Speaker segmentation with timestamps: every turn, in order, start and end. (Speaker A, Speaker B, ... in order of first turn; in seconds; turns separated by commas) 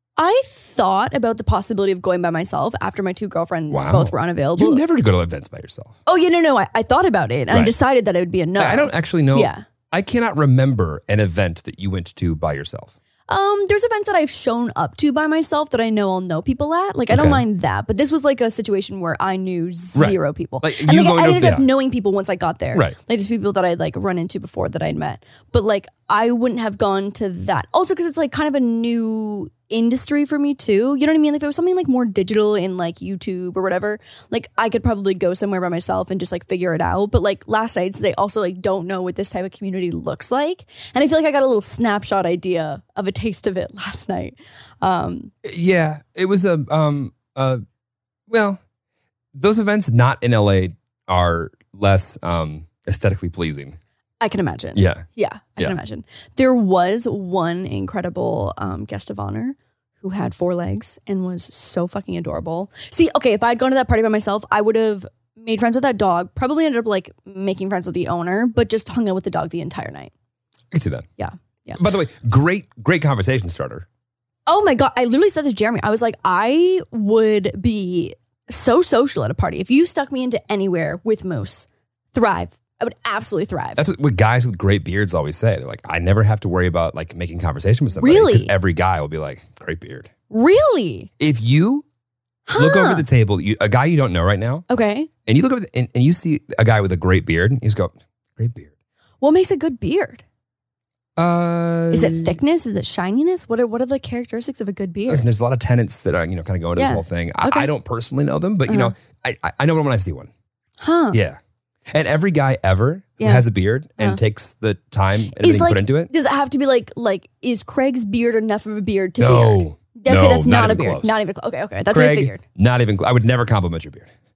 Speaker A: 0.2-4.8, Speaker B: 3.7-6.0, Speaker A: 6.0-9.6, Speaker B: 8.6-12.9, Speaker A: 13.3-45.3, Speaker B: 17.1-17.4, Speaker B: 19.9-21.7, Speaker B: 45.4-47.6, Speaker B: 48.3-48.6, Speaker B: 49.3-53.8, Speaker A: 54.2-70.1, Speaker B: 54.7-55.0, Speaker B: 70.7-71.1, Speaker A: 71.2-71.8, Speaker B: 71.8-73.8, Speaker A: 74.5-83.8, Speaker B: 83.8-90.1, Speaker A: 88.0-88.5, Speaker A: 90.3-91.1, Speaker B: 91.2-91.8, Speaker A: 92.5-93.0, Speaker B: 92.5-94.6, Speaker A: 94.7-95.1, Speaker B: 95.2-98.7, Speaker A: 99.2-100.2, Speaker B: 101.2-102.4, Speaker A: 101.9-105.3, Speaker B: 105.1-110.3, Speaker A: 106.8-107.7, Speaker A: 108.7-108.9, Speaker A: 110.8-111.2, Speaker B: 111.1-111.4, Speaker B: 111.9-116.1, Speaker A: 113.2-113.4, Speaker A: 115.3-122.4, Speaker B: 119.2-121.2, Speaker B: 121.9-124.1